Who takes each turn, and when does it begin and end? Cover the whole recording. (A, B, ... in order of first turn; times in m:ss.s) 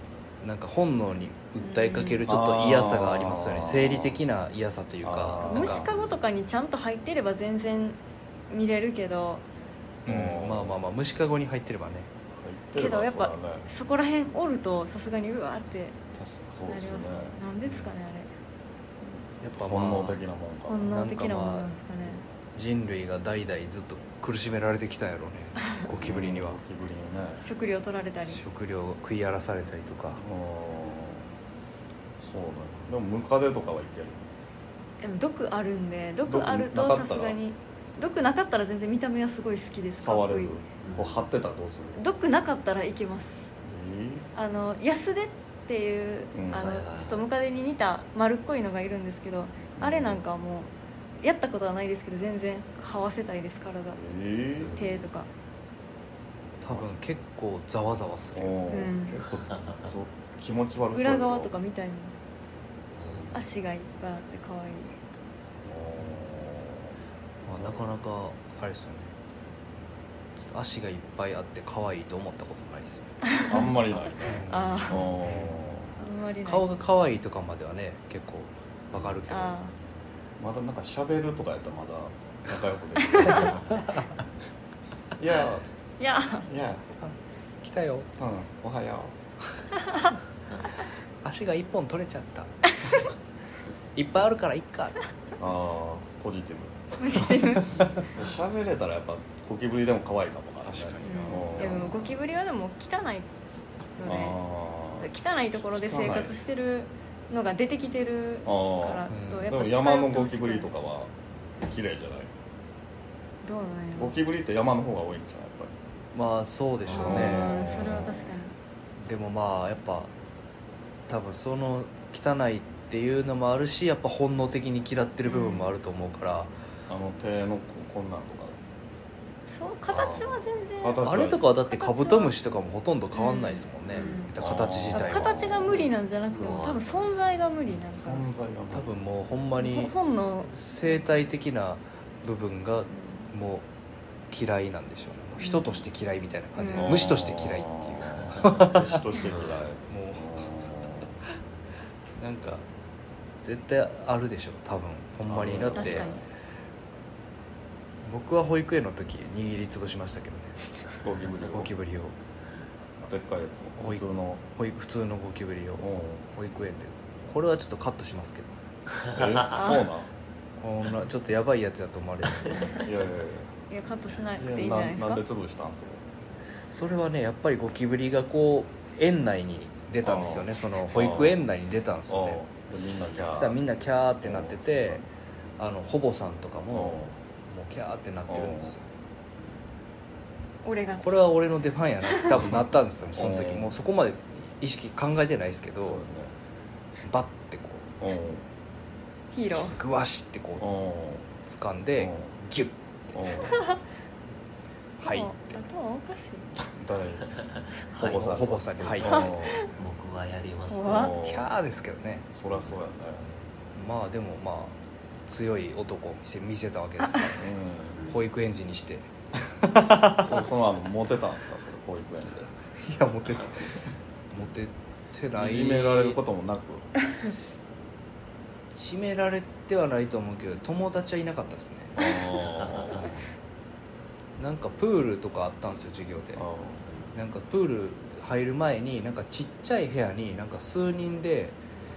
0:00.4-0:05.9 A
0:01.6-0:02.2 B
0:02.2-0:04.2 C
0:05.0-0:06.0 C
0:05.4-0:09.4 B
0:10.0-0:12.1 A
0:10.0-0:10.8 C
0:12.3-0:13.7 C
0:12.7-0:16.0 B
0:16.1-0:17.4 C
0:16.7-0:18.3 B
0:17.6-0:17.9 A
0:19.4-0:20.2 A
0:19.6-0:20.9 C
0:20.7-0:22.2 B
0:20.8-0:21.7 A
0:22.5-0:26.6 A
0:25.9-0:27.4 C
0:27.4-0:28.4 B
0:28.3-0:30.2 A
0:30.2-0:31.3 C
0:32.2-0:34.3 C
0:35.0-0:40.5 B
0:36.2-0:37.4 C
0:40.0-0:42.0 C
0:40.8-0:41.3 D
0:42.0-0:43.4 B
0:43.6-0:44.3 C
0:44.3-0:54.0 B
0:46.3-0:46.8 C
0:46.5-0:47.3 D
0:49.8-0:50.2 C
0:54.0-0:54.8 C
0:54.6-0:55.0 D
0:54.8-0:55.3 B
0:56.6-0:58.6 A
0:56.7-0:57.2 C
0:58.3-1:01.5 C
0:58.7-0:59.2 B
0:59.3-0:59.9 D
1:00.9-1:02.1 B
1:02.9-1:03.4 D
1:03.3-1:05.0 B
1:05.6-1:06.9 C
1:07.4-1:09.1 A
1:07.5-1:07.8 C
1:10.4-1:13.2 A
1:13.2-1:13.7 B
1:13.4-1:15.9 C
1:14.2-1:15.7 A
1:14.5-1:15.1 B
1:16.0-1:16.7 B
1:16.4-1:19.6 A
1:18.9-1:19.2 D
1:19.3-1:19.7 B
1:20.4-1:24.0 C
1:23.0-1:23.5 B
1:23.3-1:24.0 A
1:25.2-1:25.7 C
1:26.0-1:26.5 B
1:26.5-1:26.8 C
1:27.0-1:28.1 A
1:28.2-1:29.2 C
1:31.2-1:32.5 A
1:33.9-1:35.0 A
1:35.4-1:42.1 C
1:37.0-1:37.9 B
1:40.6-1:41.9 A
1:41.0-1:43.3 B
1:44.0-1:44.4 B
1:44.0-1:46.3 C
1:45.0-1:50.7 B
1:48.4-1:52.3 C
1:49.1-1:49.5 A
1:53.4-1:54.1 B
1:54.0-1:55.7 C
1:56.1-1:57.9 A
1:56.9-1:58.5 B
1:56.9-1:58.3 C
1:59.0-2:00.1 A
2:01.1-2:06.5 A
2:05.2-2:05.7 B
2:06.9-2:08.6 C
2:09.5-2:11.1 B
2:09.9-2:10.5 D
2:10.8-2:11.4 C
2:11.0-2:15.6 A
2:11.7-2:12.3 B
2:13.1-2:14.3 B
2:13.9-2:14.2 D
2:14.4-2:15.8 C
2:14.9-2:18.2 B
2:15.6-2:17.3 D
2:17.7-2:18.9 C
2:18.7-2:23.7 A
2:19.6-2:21.0 B
2:22.9-2:23.3 B
2:24.3-2:29.0 A
2:25.4-2:25.8 B
2:26.6-2:27.0 B
2:26.8-2:31.2 C
2:29.2-2:29.6 D
2:29.9-2:30.5 A
2:32.2-2:32.6 A
2:33.4-2:36.1 A
2:35.2-2:36.2 C
2:35.7-2:36.2 B
2:38.0-2:40.6 A
2:41.0-2:41.7 C
2:41.4-2:42.1 A
2:43.0-2:44.4 C
2:43.8-2:48.5 A
2:45.8-2:46.3 C
2:49.0-2:49.6 D
2:49.1-2:50.1 C
2:49.6-2:49.9 B
2:50.6-2:52.7 A
2:52.7-2:53.5 C
2:53.7-2:55.2 B
2:54.1-2:56.0 C
2:56.7-3:02.4 A
3:00.0-3:01.4 C
3:02.1-3:03.6 C
3:03.3-3:05.1 A
3:04.2-3:05.0 C
3:05.6-3:08.8 A
3:06.7-3:07.2 C
3:08.3-3:08.7 C
3:10.6-3:11.1 B
3:11.0-3:16.0 A
3:13.1-3:13.8 C
3:15.8-3:16.3 C
3:17.0-3:17.9 A
3:18.0-3:18.4 C
3:19.3-3:19.8 B
3:19.6-3:20.6 A
3:20.6-3:21.3 C
3:21.4-3:22.8 A
3:22.0-3:22.4 C
3:23.1-3:23.6 C
3:25.0-3:25.6 A
3:25.0-3:26.5 B
3:26.6-3:27.4 C
3:27.2-3:28.2 D
3:27.9-3:29.7 C
3:28.0-3:29.2 A
3:29.0-3:29.7 B
3:29.7-3:31.1 D
3:30.7-3:31.2 B
3:30.8-3:31.5 C
3:31.2-3:32.2 A
3:32.3-3:33.3 C
3:32.5-3:32.8 D
3:33.7-3:37.4 A
3:37.4-3:38.0 C
3:37.9-3:38.2 D
3:38.1-3:39.1 A
3:39.6-3:40.4 A
3:40.2-3:42.5 C
3:42.8-3:46.2 A
3:45.4-3:46.9 C
3:48.8-3:52.0 A
3:52.0-3:53.1 C
3:52.5-3:53.1 D
3:54.4-3:56.4 A
3:56.4-3:56.8 C
3:56.8-3:57.2 D
3:57.1-4:01.6 A